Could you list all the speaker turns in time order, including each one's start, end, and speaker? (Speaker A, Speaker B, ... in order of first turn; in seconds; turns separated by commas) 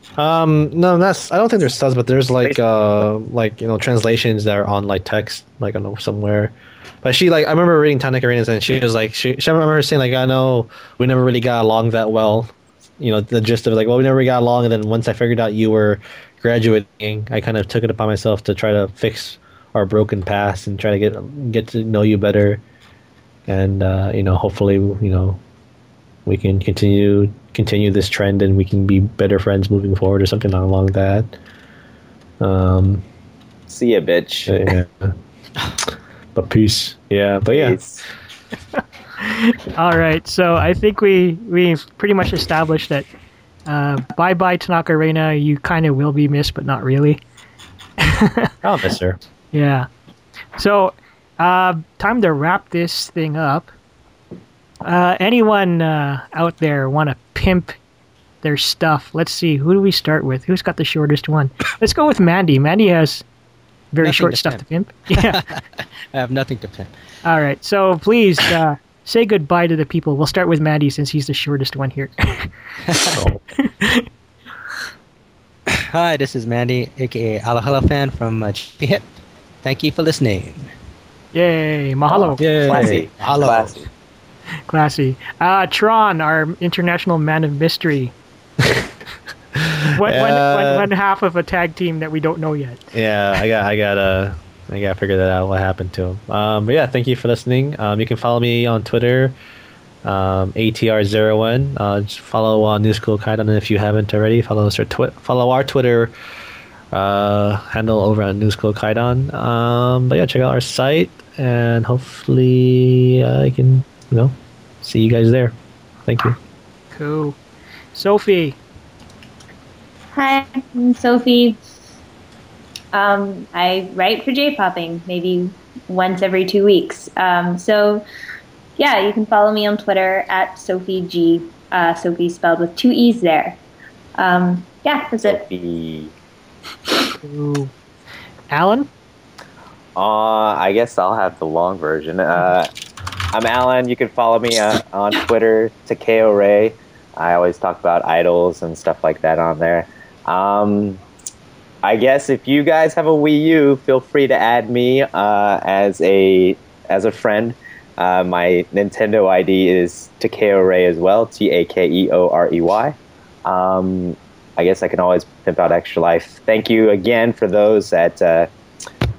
Speaker A: 0.2-22.6, Speaker A: 23.5-25.4, Speaker A: 26.2-31.3, Speaker A: 32.4-33.0, Speaker B: 33.7-34.5, Speaker A: 34.5-35.1, Speaker A: 36.3-37.8, Speaker B: 37.5-38.0, Speaker C: 38.8-43.0, Speaker C: 43.7-47.2, Speaker C: 48.0-48.5, Speaker A: 48.6-49.2, Speaker C: 49.5-49.9, Speaker C: 50.5-53.7, Speaker C: 54.8-57.8, Speaker C: 58.4-63.2, Speaker C: 63.9-65.4, Speaker D: 64.0-66.9, Speaker C: 67.2-72.5, Speaker D: 72.9-73.2, Speaker C: 73.6-74.0, Speaker D: 75.7-79.1, Speaker D: 79.6-80.7, Speaker C: 81.3-82.4, Speaker D: 82.4-83.8, Speaker B: 82.6-83.9, Speaker C: 84.7-88.1, Speaker A: 89.5-90.9, Speaker C: 89.9-92.8, Speaker A: 92.9-99.3, Speaker A: 100.0-106.1, Speaker A: 106.9-115.5, Speaker A: 116.0-116.4, Speaker C: 116.9-117.4, Speaker C: 117.9-118.6, Speaker E: 120.1-121.6, Speaker E: 122.9-128.0, Speaker E: 128.8-133.6, Speaker E: 134.2-135.4, Speaker B: 135.2-136.1, Speaker C: 137.2-137.7, Speaker C: 138.5-138.9, Speaker B: 139.9-142.7, Speaker B: 143.3-151.0, Speaker B: 151.8-168.5